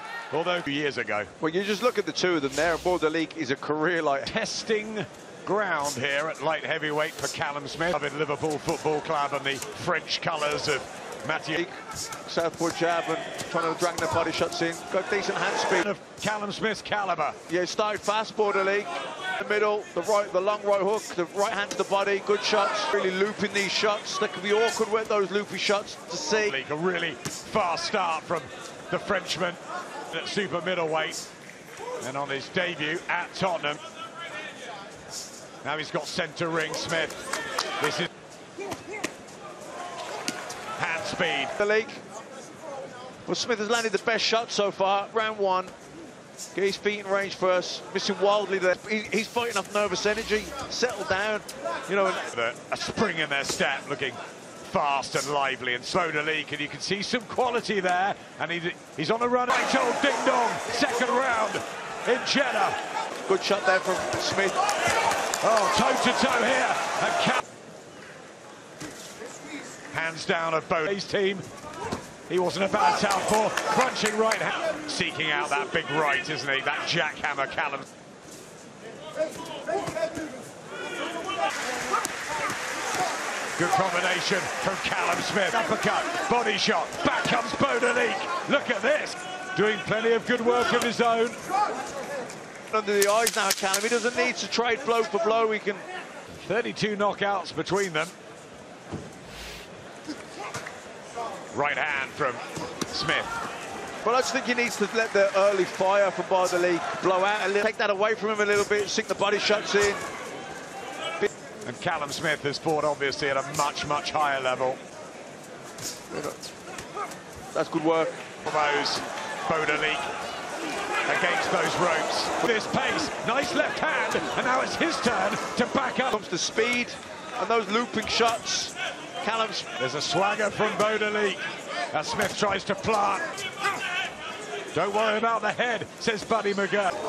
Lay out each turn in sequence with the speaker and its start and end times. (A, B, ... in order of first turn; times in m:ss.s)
0:00.3-0:01.3 A
0:01.4-0:04.3 B
0:04.2-0:11.6 A
0:12.2-0:15.9 B
0:15.7-0:17.4 A
0:17.5-0:26.6 B
0:26.4-0:29.6 A
0:30.1-0:31.2 A
0:32.0-0:33.8 A
0:35.6-0:37.2 A
0:37.8-0:38.1 A
0:40.8-0:41.6 A
0:41.6-0:42.0 B
0:43.3-0:45.7 B
0:46.5-0:52.2 B
0:52.3-1:02.8 A
1:03.3-1:04.6 B
1:05.4-1:07.4 A
1:09.9-1:11.4 A
1:12.3-1:17.8 A
1:23.6-1:31.4 A
1:32.7-1:35.8 B
1:36.4-1:38.1 A
1:41.5-1:43.3 A
1:44.0-1:50.0 B
1:51.6-1:54.8 A
1:56.1-1:56.4 B
1:57.5-1:58.2 B
1:58.4-2:00.1 A
2:01.0-2:06.2 A
2:06.1-2:09.7 B
2:09.8-2:13.3 A
2:14.7-2:16.9 A